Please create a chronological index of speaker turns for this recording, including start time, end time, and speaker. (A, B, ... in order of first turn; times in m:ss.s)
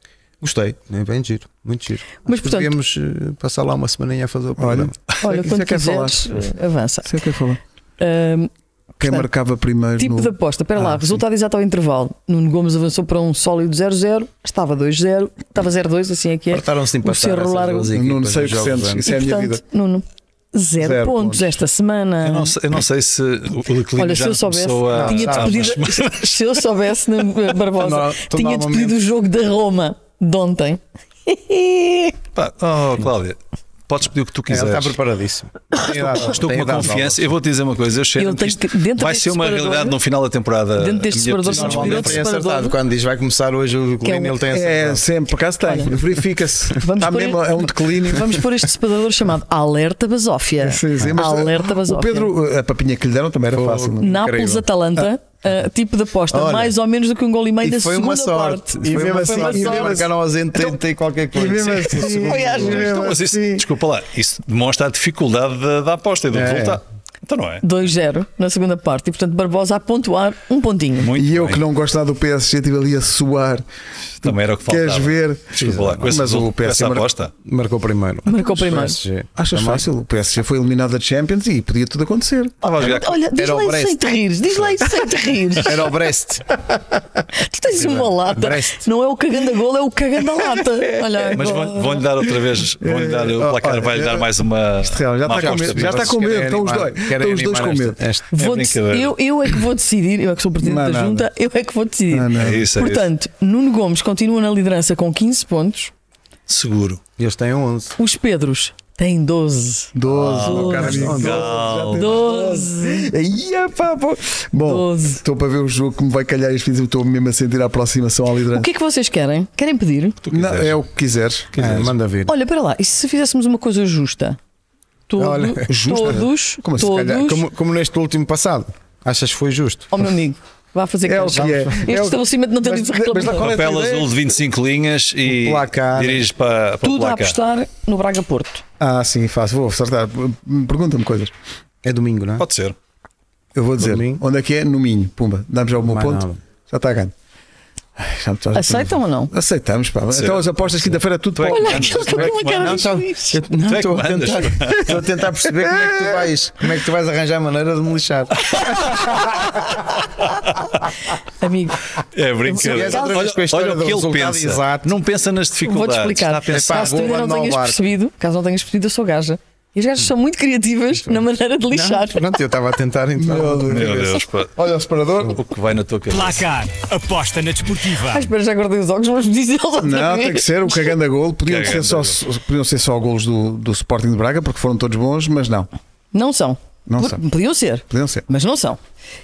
0:00.4-0:05.0 A
0:02.3-0:02.7 B
0:04.6-0:06.5 C
0:05.2-0:07.2 B
0:07.1-0:07.6 C
0:08.0-0:08.5 B
0:09.0-0:11.2 C
0:09.0-0:09.3 B
0:10.0-0:17.9 B
0:16.5-0:19.1 A
0:17.9-0:19.6 C
0:19.0-0:22.5 B
0:20.8-0:21.6 C
0:22.2-0:26.2 D
0:24.0-0:32.2 B
0:24.9-0:25.8 A
0:27.8-0:29.0 A
0:32.4-0:35.0 D
0:34.5-0:37.3 A
0:35.8-0:42.3 D
0:38.2-0:40.0 B
0:40.8-0:42.8 B
0:41.4-0:45.0 A
0:44.0-0:44.4 B
0:44.5-0:48.4 C
0:45.6-0:45.9 B
0:46.8-0:52.3 B
0:50.6-0:54.1 C
0:53.5-0:54.7 A
0:54.0-1:00.0 B
0:56.3-0:56.8 A
0:57.6-1:02.8 A
0:58.9-1:00.1 C
1:01.3-1:03.6 C
1:02.0-1:03.0 B
1:02.4-1:07.6 D
1:06.3-1:06.8 A
1:07.6-1:11.1 B
1:11.0-1:11.6 D
1:11.2-1:13.6 C
1:14.2-1:17.3 D
1:14.2-1:17.1 C
1:15.6-1:16.1 A
1:17.4-1:19.9 A
1:18.3-1:19.0 B
1:18.4-1:22.5 C
1:22.6-1:23.2 D
1:22.7-1:25.9 B
1:23.4-1:24.0 A
1:25.6-1:26.6 A
1:27.3-1:32.1 B
1:27.8-1:28.8 A
1:31.3-1:36.2 D
1:32.8-1:34.3 C
1:34.8-1:38.0 C
1:35.3-1:38.3 A
1:38.3-1:45.9 B
1:38.4-1:39.2 D
1:40.6-1:41.3 C
1:42.1-1:42.7 C
1:42.4-1:43.1 D
1:46.5-1:47.0 D
1:47.2-1:48.0 A
1:48.0-1:51.3 B
1:50.0-1:58.7 C
1:50.1-1:52.3 D
1:50.8-1:51.8 A
1:52.0-1:53.1 B
1:54.6-1:55.2 B
1:58.5-2:00.2 B
2:00.2-2:00.8 D
2:00.3-2:01.5 C
2:01.5-2:01.9 D
2:01.6-2:02.3 A
2:02.3-2:04.4 B
2:05.1-2:07.5 B
2:05.2-2:05.7 A
2:05.7-2:07.3 C
2:07.1-2:10.1 A
2:09.9-2:13.5 B
2:11.1-2:14.1 C
2:11.3-2:11.9 A
2:13.2-2:17.4 D
2:13.6-2:13.9 A
2:15.3-2:16.3 A
2:16.8-2:18.6 B
2:18.8-2:21.3 C
2:21.8-2:22.4 A
2:22.4-2:22.8 D
2:23.6-2:27.1 C
2:23.8-2:24.2 A
2:25.8-2:26.4 A
2:28.0-2:32.4 C
2:28.5-2:29.3 B
2:30.1-2:32.9 D
2:31.5-2:33.4 B
2:32.5-2:39.0 A
2:33.6-2:34.9 D
2:35.6-2:36.2 C
2:41.3-2:43.2 B
2:42.2-2:47.2 D
2:42.6-2:44.9 A
2:45.6-2:52.4 B
2:46.5-2:47.8 A
2:51.1-2:55.4 A
2:53.2-2:54.1 C
2:53.7-2:54.6 D
2:55.2-2:56.5 D
2:56.1-2:58.3 E
2:58.1-3:00.9 B
2:59.8-3:05.7 C
3:01.4-3:02.2 D
3:06.1-3:08.8 B
3:06.9-3:07.2 C
3:07.9-3:08.2 C